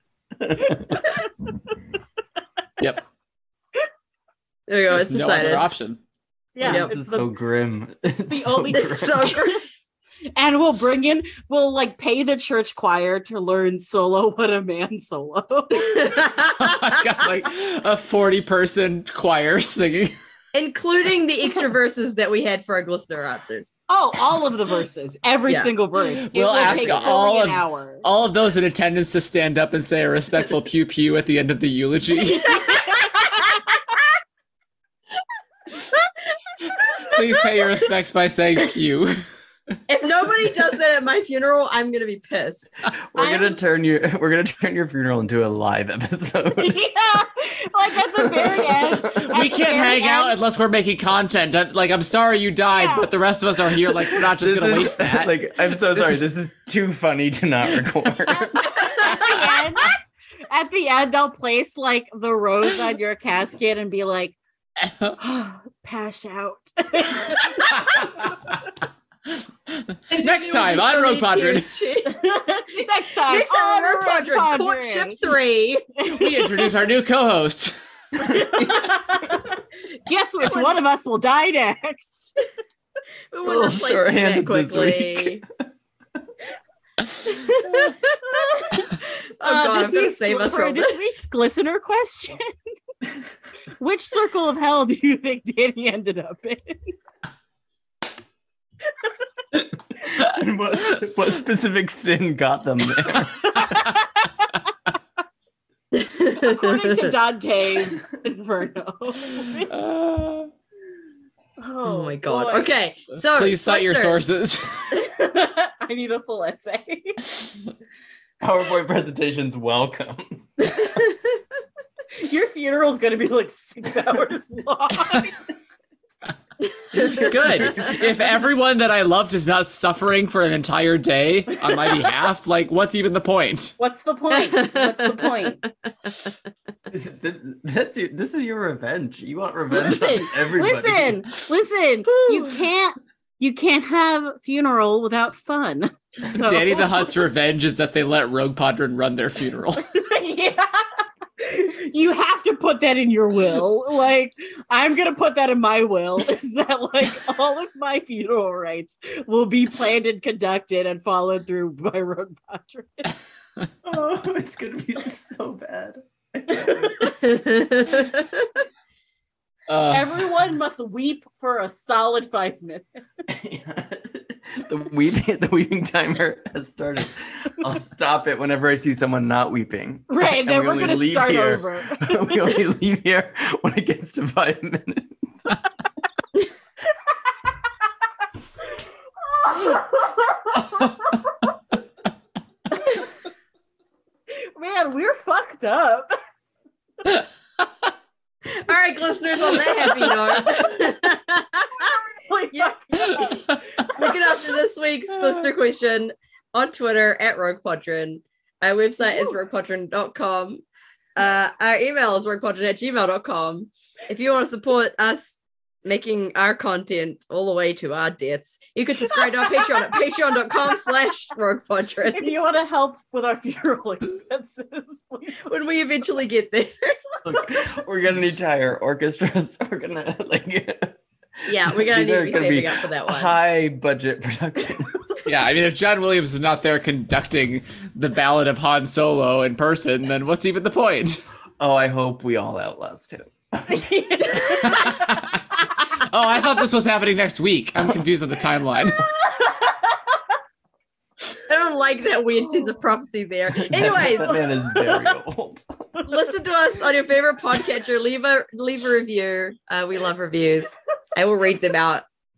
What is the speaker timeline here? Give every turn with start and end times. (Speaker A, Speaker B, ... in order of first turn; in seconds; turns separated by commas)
Speaker A: 0.4-1.0, Speaker B: 2.8-3.0, Speaker C: 4.7-5.7, Speaker B: 4.9-6.0, Speaker D: 6.5-7.3, Speaker C: 6.6-6.9, Speaker A: 6.6-9.4, Speaker D: 8.2-9.5, Speaker C: 8.7-9.6, Speaker D: 10.3-16.2, Speaker C: 15.7-17.2, Speaker B: 16.5-20.1, Speaker C: 20.5-23.7, Speaker D: 23.9-28.0, Speaker B: 26.2-32.7, Speaker C: 26.6-26.9, Speaker D: 32.5-33.5, Speaker C: 32.5-33.2, Speaker B: 37.0-39.2, Speaker C: 39.9-42.7, Speaker A: 43.1-46.8, Speaker D: 43.2-43.5, Speaker D: 46.6-50.4, Speaker A: 48.1-49.3, Speaker B: 49.2-55.4, Speaker D: 52.7-53.1, Speaker A: 54.3-58.9, Speaker B: 55.9-56.2, Speaker D: 58.3-60.0, Speaker C: 58.8-59.3, Speaker D: 60.5-64.4, Speaker B: 64.8-65.2, Speaker D: 65.2-68.2, Speaker B: 67.9-68.5, Speaker B: 69.7-71.7, Speaker C: 70.1-72.2, Speaker D: 72.0-75.2, Speaker C: 73.3-75.8, Speaker D: 76.0-76.7, Speaker B: 76.1-77.8, Speaker D: 78.2-82.3, Speaker A: 78.3-78.9, Speaker C: 80.5-80.8, Speaker C: 83.3-85.4, Speaker A: 83.4-85.5, Speaker C: 87.2-91.1, Speaker D: 88.4-88.7, Speaker D: 89.4-92.5, Speaker D: 93.8-96.9, Speaker A: 100.0-103.9, Speaker D: 103.6-104.0, Speaker C: 105.9-107.1, Speaker D: 106.4-109.8, Speaker B: 109.6-110.5, Speaker D: 111.6-112.7, Speaker C: 111.8-114.2, Speaker B: 113.1-115.0, Speaker D: 115.2-117.2, Speaker A: 118.4-120.5, Speaker C: 120.8-121.3, Speaker D: 122.2-125.3, Speaker C: 126.7-127.7, Speaker A: 127.0-128.1, Speaker B: 127.0-133.7, Speaker D: 133.8-135.6, Speaker C: 134.3-136.3, Speaker A: 136.9-141.2, Speaker D: 139.7-147.1, Speaker B: 146.2-149.9, Speaker D: 149.9-150.9, Speaker D: 151.4-163.1, Speaker A: 163.8-167.1, Speaker C: 167.0-168.6, Speaker B: 169.7-170.2, Speaker D: 169.9-172.9, Speaker A: 173.3-185.6, Speaker D: 180.1-182.5, Speaker D: 189.4-191.0, Speaker D: 194.5-196.1, Speaker C: 198.5-201.9, Speaker D: 201.8-203.4, Speaker C: 202.5-203.2, Speaker B: 203.1-203.6, Speaker C: 203.8-210.6, Speaker C: 211.2-222.3, Speaker D: 219.1-220.9, Speaker D: 222.1-225.5, Speaker C: 225.5-227.2, Speaker A: 227.2-235.1, Speaker C: 231.4-233.3, Speaker B: 235.2-241.2, Speaker A: 241.6-243.8, Speaker D: 243.7-244.9, Speaker B: 244.4-249.0, Speaker D: 249.3-249.9, Speaker C: 251.4-254.4, Speaker A: 253.5-256.0, Speaker D: 254.0-255.0, Speaker C: 256.0-262.0